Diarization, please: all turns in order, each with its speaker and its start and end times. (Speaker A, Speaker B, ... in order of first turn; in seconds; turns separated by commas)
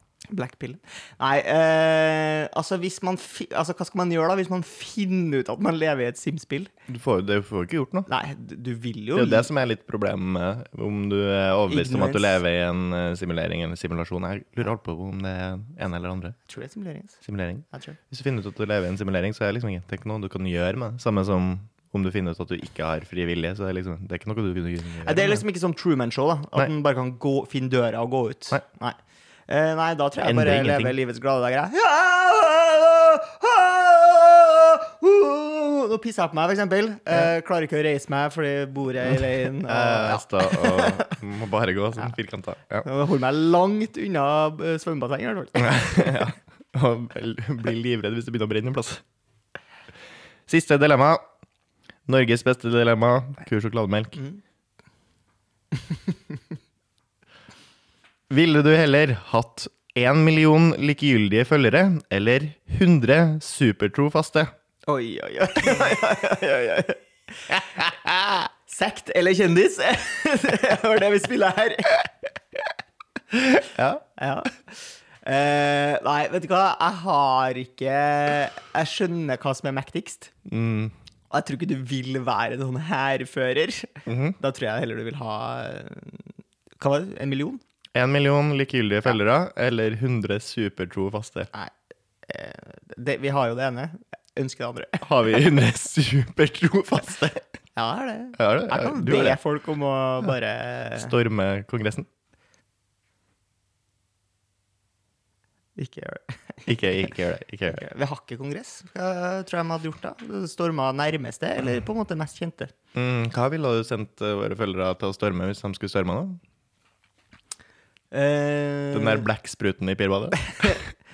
Speaker A: 0.3-6.7, Speaker B: 6.9-8.1, Speaker A: 8.1-9.5, Speaker B: 9.2-16.4, Speaker A: 11.7-12.4, Speaker A: 16.5-17.2, Speaker B: 17.2-25.4, Speaker A: 17.7-18.0, Speaker A: 25.0-29.0, Speaker A: 29.5-41.2, Speaker B: 30.2-30.9, Speaker B: 39.7-42.9, Speaker A: 42.9-46.2, Speaker B: 45.6-49.0, Speaker B: 50.5-51.2, Speaker B: 52.1-54.2, Speaker A: 55.8-56.2, Speaker B: 58.3-64.5, Speaker A: 64.9-72.1, Speaker B: 73.6-74.0, Speaker A: 74.2-80.3, Speaker B: 80.5-80.9, Speaker A: 81.3-86.3, Speaker B: 84.1-84.4, Speaker A: 86.8-87.6, Speaker B: 88.0-91.5, Speaker A: 92.3-95.0, Speaker B: 95.0-97.5, Speaker A: 97.8-101.1, Speaker B: 98.4-99.4, Speaker B: 101.0-102.1, Speaker A: 105.8-107.1, Speaker B: 106.7-107.8, Speaker A: 107.7-112.7, Speaker B: 112.9-116.4, Speaker A: 118.1-119.2, Speaker B: 118.9-120.9